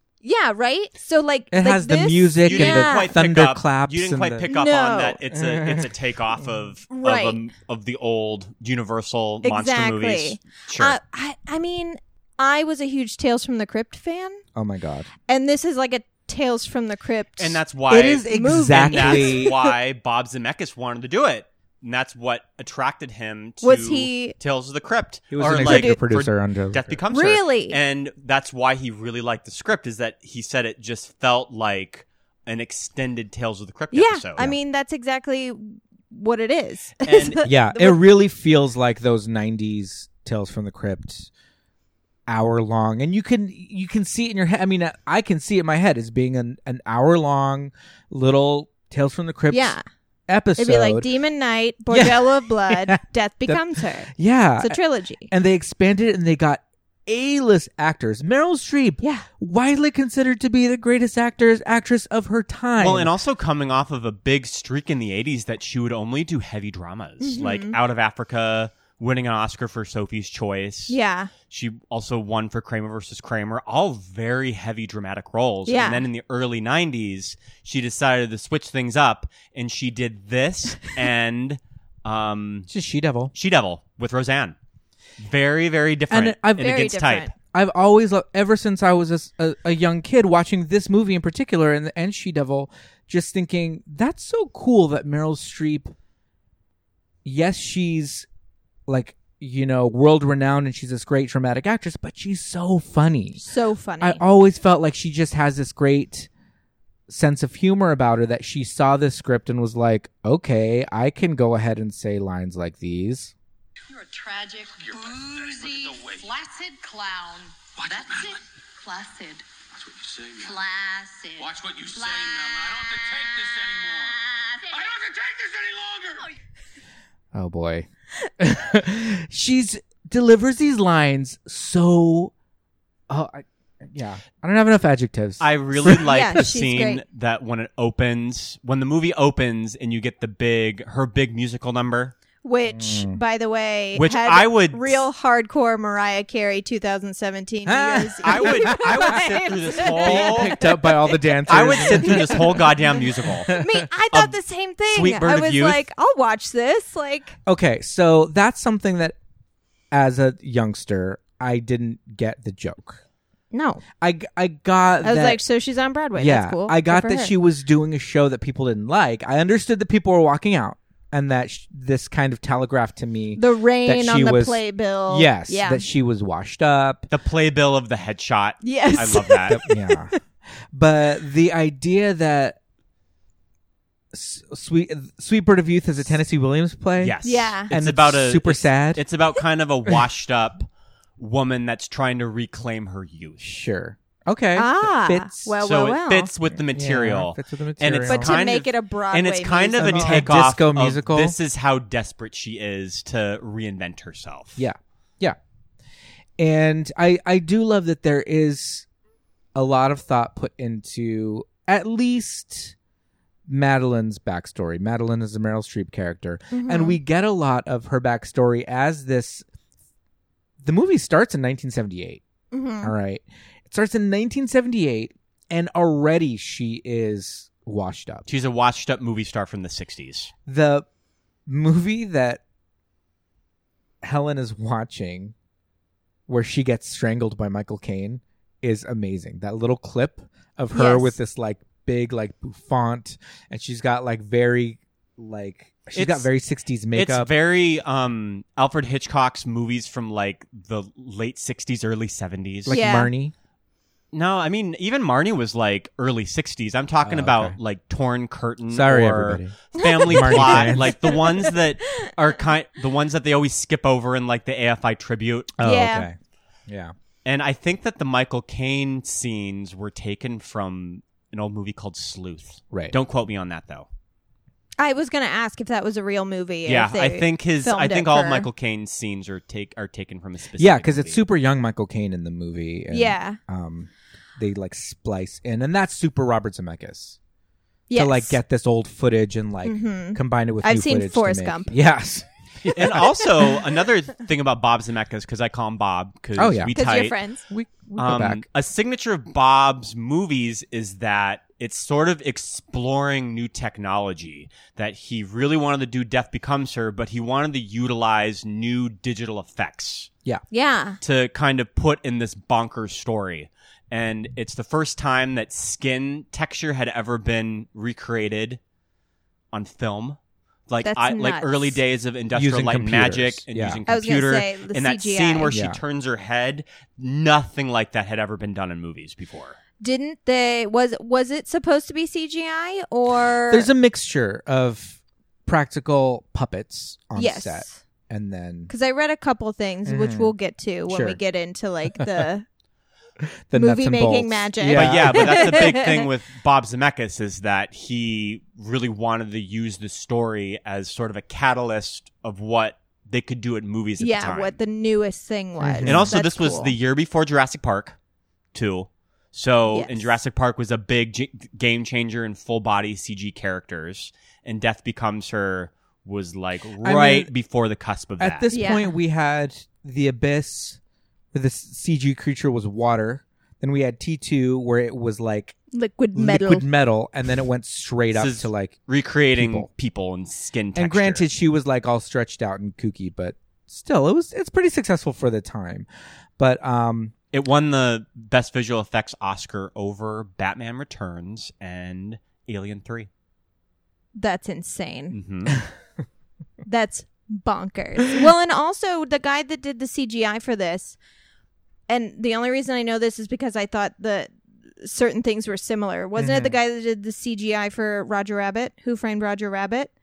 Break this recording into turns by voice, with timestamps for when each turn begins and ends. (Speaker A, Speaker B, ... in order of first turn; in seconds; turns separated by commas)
Speaker A: 0.2-3.1, Speaker B: 1.5-4.5, Speaker C: 2.5-11.0, Speaker A: 4.5-5.2, Speaker B: 5.3-5.9, Speaker A: 6.9-7.4, Speaker A: 9.4-14.4, Speaker B: 14.6-15.1, Speaker A: 15.3-17.6, Speaker C: 17.4-34.6, Speaker B: 17.9-19.6, Speaker A: 18.3-19.6, Speaker A: 23.6-24.4, Speaker B: 25.3-27.0, Speaker A: 25.6-26.0, Speaker A: 27.1-27.8, Speaker A: 33.9-38.0, Speaker C: 37.0-37.4, Speaker B: 37.4-41.3, Speaker B: 42.3-49.8, Speaker A: 49.5-49.8, Speaker B: 50.3-51.1, Speaker A: 50.6-55.3, Speaker B: 51.9-63.1, Speaker A: 59.0-59.3, Speaker C: 62.8-71.0, Speaker A: 67.2-67.8, Speaker A: 70.9-71.3, Speaker C: 71.5-82.7, Speaker A: 75.7-76.1, Speaker B: 82.7-83.3, Speaker C: 83.3-84.6, Speaker C: 85.2-87.3, Speaker B: 86.1-86.9, Speaker A: 86.6-87.3, Speaker B: 87.4-96.0, Speaker B: 97.2-98.3, Speaker B: 98.9-103.4, Speaker A: 103.4-104.2, Speaker B: 104.0-106.3, Speaker B: 107.1-113.3, Speaker D: 113.9-119.5, Speaker E: 114.8-116.3, Speaker E: 117.8-118.4, Speaker E: 119.7-120.6, Speaker D: 120.4-123.2, Speaker E: 121.4-124.2, Speaker D: 124.0-124.8, Speaker E: 124.7-126.3, Speaker B: 127.3-132.3, Speaker B: 133.1-136.1, Speaker C: 135.4-142.2, Speaker A: 136.1-137.0, Speaker A: 142.4-150.6, Speaker B: 142.7-143.2, Speaker C: 143.9-145.1, Speaker B: 147.7-149.2, Speaker C: 148.2-150.7, Speaker B: 149.7-153.8, Speaker C: 151.5-153.6, Speaker A: 151.9-152.6, Speaker A: 153.5-157.4, Speaker C: 154.9-155.8, Speaker B: 157.5-159.2, Speaker B: 159.9-163.0, Speaker A: 163.5-163.8, Speaker B: 164.0-165.4, Speaker A: 165.0-167.3, Speaker B: 166.2-177.1, Speaker A: 173.4-175.9, Speaker C: 177.1-179.6, Speaker A: 178.6-180.2, Speaker B: 179.5-180.1, Speaker B: 180.7-182.6, Speaker B: 184.1-189.0, Speaker C: 187.0-193.5, Speaker A: 187.2-187.7, Speaker B: 193.4-195.5, Speaker A: 194.6-196.3, Speaker C: 195.6-204.6, Speaker B: 196.5-198.4, Speaker A: 198.1-200.3, Speaker B: 199.8-201.4, Speaker B: 204.6-205.4, Speaker B: 206.4-208.9, Speaker B: 209.6-212.8, Speaker B: 213.5-219.5, Speaker A: 216.5-217.0, Speaker B: 220.6-222.2, Speaker A: 222.5-222.9, Speaker B: 222.8-228.2, Speaker C: 228.3-230.3, Speaker B: 230.5-230.9, Speaker B: 231.5-232.4, Speaker B: 234.0-235.3, Speaker B: 236.3-247.3, Speaker A: 240.7-241.2, Speaker C: 245.9-246.3, Speaker C: 246.9-252.8, Speaker B: 252.7-253.3, Speaker A: 252.7-253.1, Speaker C: 254.1-265.6, Speaker B: 257.0-257.6, Speaker B: 258.7-261.2, Speaker A: 259.8-262.1, Speaker B: 265.6-266.2, Speaker A: 265.6-266.1, Speaker B: 266.7-266.9, Speaker C: 267.2-273.9, Speaker A: 274.8-278.5, Speaker C: 276.7-281.2, Speaker B: 280.6-287.2, Speaker A: 282.9-283.4, Speaker A: 287.9-288.4, Speaker B: 287.9-293.6, Speaker A: 289.6-291.7, Speaker C: 292.7-297.2, Speaker B: 296.4-296.8, Speaker A: 296.7-297.4, Speaker B: 297.5-298.5, Speaker C: 298.0-310.1, Speaker A: 310.5-311.0, Speaker C: 311.0-318.6, Speaker C: 319.5-329.6, Speaker A: 320.8-321.8, Speaker B: 322.3-323.8, Speaker A: 323.9-325.6, Speaker B: 325.5-325.8, Speaker A: 329.8-333.7, Speaker B: 333.5-338.7, Speaker A: 337.1-337.8, Speaker A: 338.7-342.5, Speaker B: 339.9-340.3, Speaker B: 340.9-341.2, Speaker B: 341.9-342.3, Speaker B: 343.5-345.7, Speaker A: 343.5-346.1, Speaker C: 344.7-354.6, Speaker A: 354.0-356.8, Speaker B: 355.6-356.1, Speaker C: 355.9-358.0, Speaker C: 358.5-368.5, Speaker A: 359.7-360.1, Speaker B: 366.8-367.3, Speaker B: 368.2-370.8, Speaker A: 368.5-368.9, Speaker B: 371.3-375.6, Speaker A: 375.7-376.7, Speaker B: 376.1-378.8, Speaker C: 378.1-381.3, Speaker B: 379.3-379.7, Speaker B: 380.8-385.9, Speaker B: 386.4-387.1, Speaker C: 387.3-393.1, Speaker A: 394.2-395.2, Speaker C: 395.1-395.6, Speaker A: 396.7-401.0, Speaker A: 401.9-409.9, Speaker B: 406.2-406.6